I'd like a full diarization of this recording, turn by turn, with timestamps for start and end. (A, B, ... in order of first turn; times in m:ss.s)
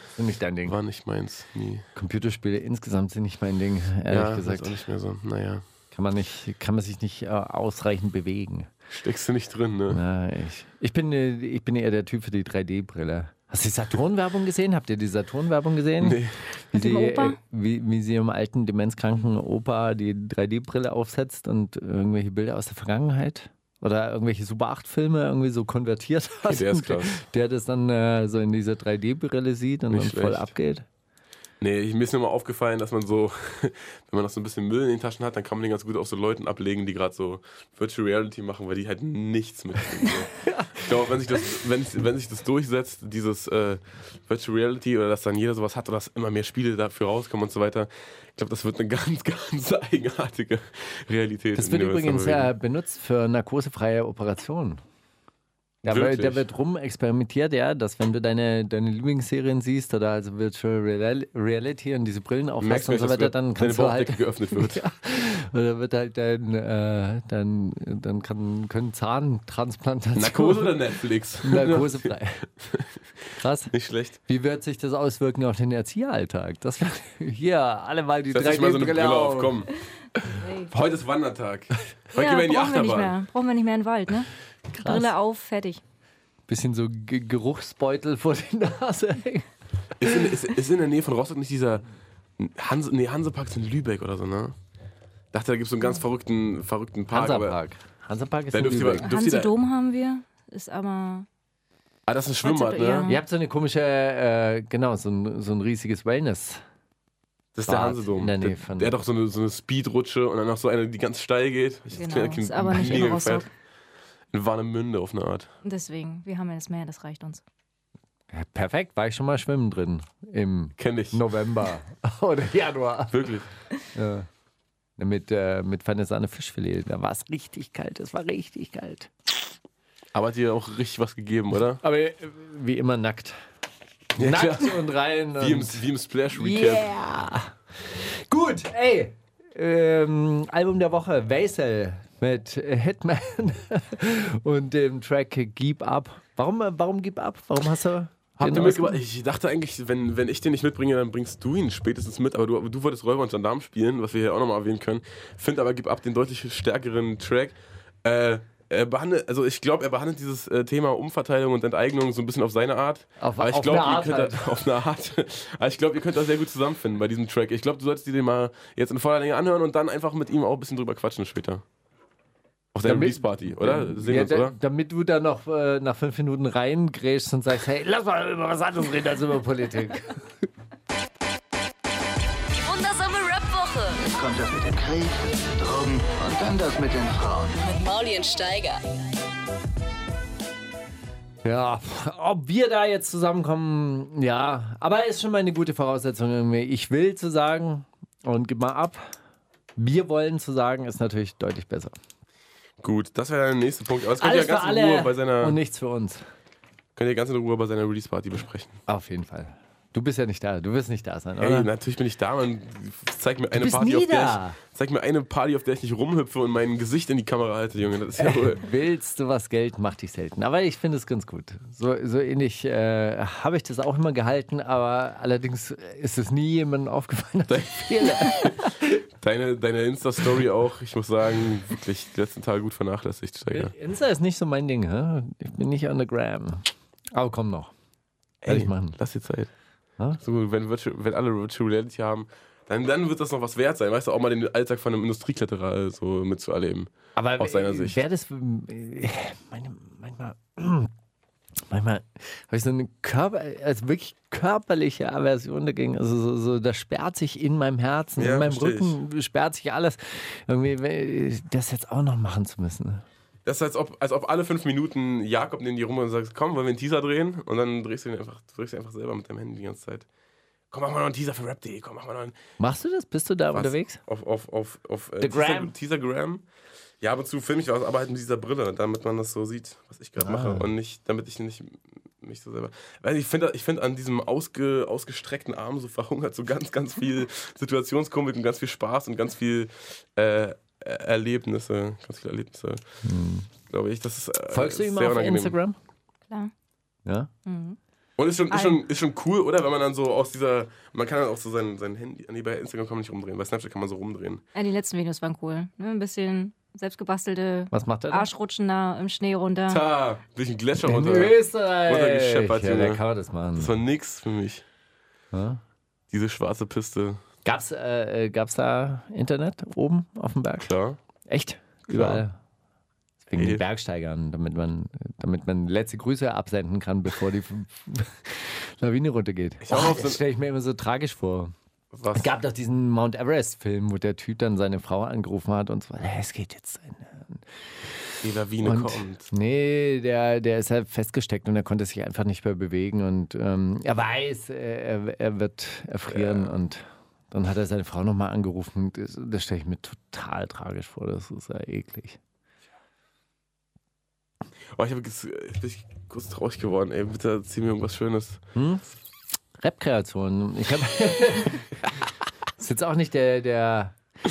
0:00.2-0:00.8 A
0:00.6-0:01.8 B
0:01.9-0:04.8 A
0:04.1-0:05.6 B
0:05.9-0:08.7 A
0:08.9-0:10.0 B
0:09.9-0:16.2 A
0:16.0-0:16.4 B
0:16.7-0:17.4 C
0:16.7-0:30.8 A
0:26.5-0:27.2 B
0:29.9-0:30.5 B
0:31.6-0:52.5 B
0:40.4-0:40.8 A
0:51.6-0:54.8 A
0:55.8-0:56.4 B
0:55.8-1:10.8 A
1:02.6-1:04.8 B
1:10.2-1:12.9 B
1:11.4-1:12.4 A
1:13.4-1:13.7 A
1:13.7-1:14.2 B
1:14.3-1:19.6 A
1:18.3-1:19.7 B
1:20.3-1:20.7 C
1:20.7-1:23.1 B
1:22.1-1:25.8 C
1:24.7-1:25.1 A
1:26.5-1:29.5 A
1:30.0-1:31.8 B
1:32.4-1:34.6 B
1:35.3-1:37.6 B
1:37.1-1:39.1 A
1:38.5-1:39.5 B
1:39.0-1:41.3 C
1:42.1-1:43.1 B
1:42.4-1:43.2 C
1:43.1-1:46.6 A
1:47.5-1:53.4 B
1:47.6-1:48.9 A
1:51.9-1:53.5 C
1:52.8-1:53.1 A
1:54.3-1:55.5 B
1:55.6-1:57.4 C
1:58.3-2:03.3 A
2:00.8-2:01.2 B
2:03.1-2:03.5 B
2:03.9-2:04.3 A
2:05.0-2:09.1 A
2:10.1-2:11.8 B
2:11.8-2:13.4 A
2:14.1-2:29.0 A
2:14.2-2:16.9 B
2:28.4-2:51.6 B
2:43.2-2:44.5 A
2:52.7-2:54.6 B
2:52.8-3:00.3 A
3:02.5-3:04.0 D
3:04.1-3:07.6 E
3:07.6-3:08.8 D
3:11.4-3:19.1 A
3:19.8-3:21.9 A
3:22.8-3:25.6 B
3:24.2-3:26.2 A
3:27.0-3:28.8 B
3:28.9-3:31.7 A
3:31.4-3:38.6 B
3:33.5-3:34.6 A
3:38.2-3:49.0 A
3:47.5-3:48.5 B
3:49.2-3:53.7 B
3:53.5-3:57.7 A
3:58.4-3:59.5 B
3:58.4-3:59.0 A
4:00.2-4:08.0 B
4:07.2-4:10.9 A
4:11.7-4:23.0 A
4:18.2-4:19.0 B
4:23.4-4:30.1 B
4:30.7-4:32.3 B
4:32.6-4:34.0 A
4:33.5-4:36.4 B
4:35.2-4:35.7 A
4:37.0-4:52.8 B
4:40.2-4:40.7 A
4:53.0-4:53.5 A
4:53.7-4:55.6 B
4:54.5-4:55.8 A
4:57.4-4:57.8 C
4:58.2-5:04.4 B
4:58.5-4:58.8 C
5:04.5-5:09.8 C
5:07.7-5:08.3 A
5:09.7-5:13.0 B
5:10.8-5:13.7 A
5:13.6-5:14.6 B
5:15.3-5:15.6 A
5:16.1-5:17.2 B
5:17.4-5:20.7 A
5:20.6-5:21.0 B
5:21.3-5:22.4 A
5:21.9-5:22.2 B
5:23.3-5:31.5 A
5:23.3-5:23.6 B
5:29.6-5:30.2 B
5:31.9-5:32.3 B
5:32.1-5:37.4 A
5:38.2-5:39.3 B
5:38.6-5:52.2 A
5:46.1-5:46.5 B
5:54.7-5:58.4 B
5:58.5-5:58.8 A
5:59.6-6:02.0 A
6:02.6-6:04.0 A